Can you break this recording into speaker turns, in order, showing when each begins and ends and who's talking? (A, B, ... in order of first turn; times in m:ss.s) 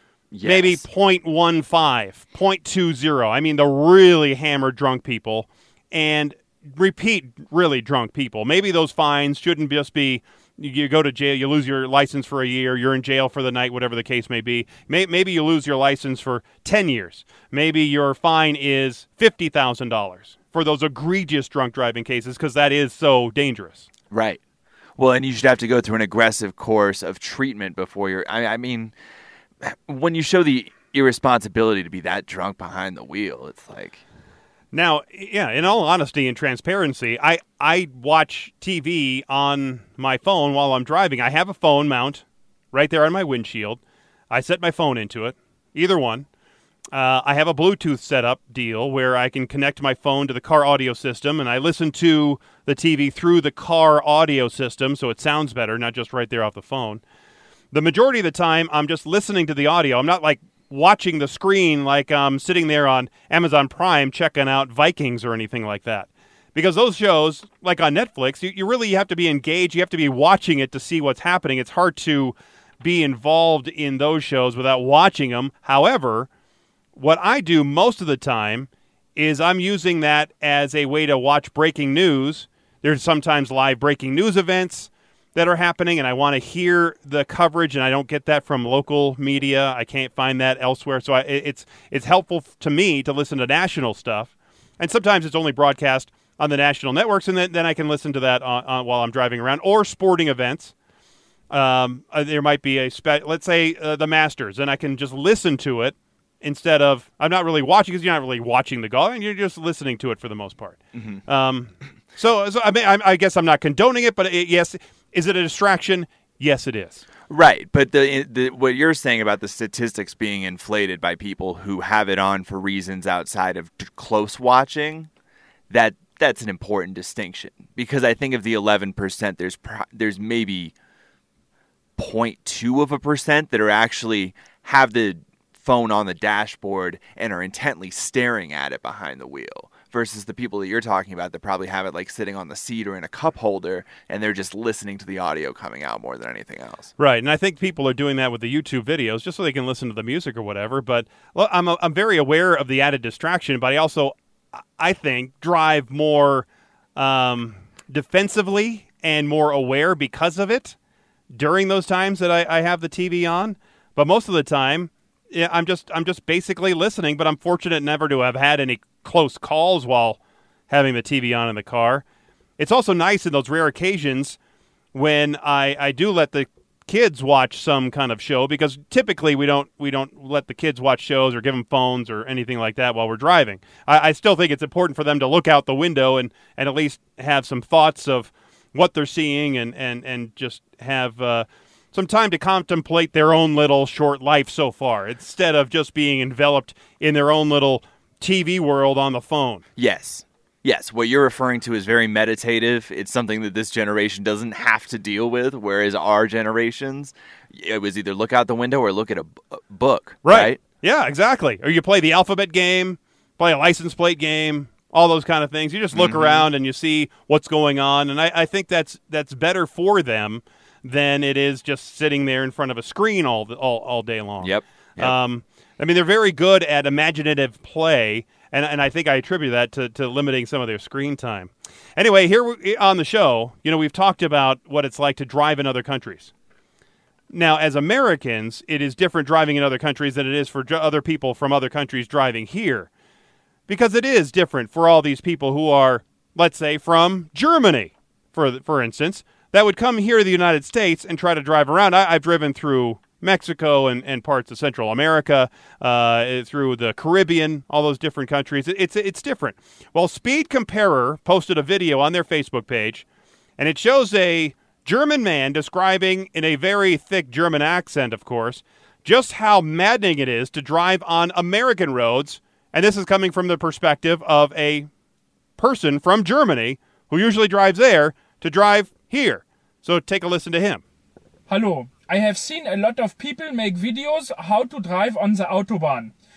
0:00.3-0:00.8 A
0:00.4-0:23.9 B
0:24.1-0:24.4 A
0:25.0-0:28.9 A
0:29.6-0:34.0 A
0:34.7-0:46.2 B
0:46.9-0:57.0 B
0:57.7-1:16.3 B
1:17.0-1:40.7 B
1:41.5-1:57.0 B
1:50.9-1:51.2 A
1:57.3-2:05.1 A
2:05.7-2:10.7 A
2:12.0-2:26.9 A
2:27.0-2:34.1 B
2:34.8-2:40.8 B
2:41.3-2:50.2 B
2:50.7-2:52.0 B
2:52.6-2:54.4 B
2:54.9-3:19.6 B
3:19.8-3:30.6 A
3:30.2-3:56.3 B
3:35.9-3:36.5 A
3:44.4-3:45.1 A
3:57.3-4:02.9 B
4:03.7-4:23.0 B
4:23.6-4:34.9 B
4:35.6-4:40.8 B
4:41.5-4:46.1 C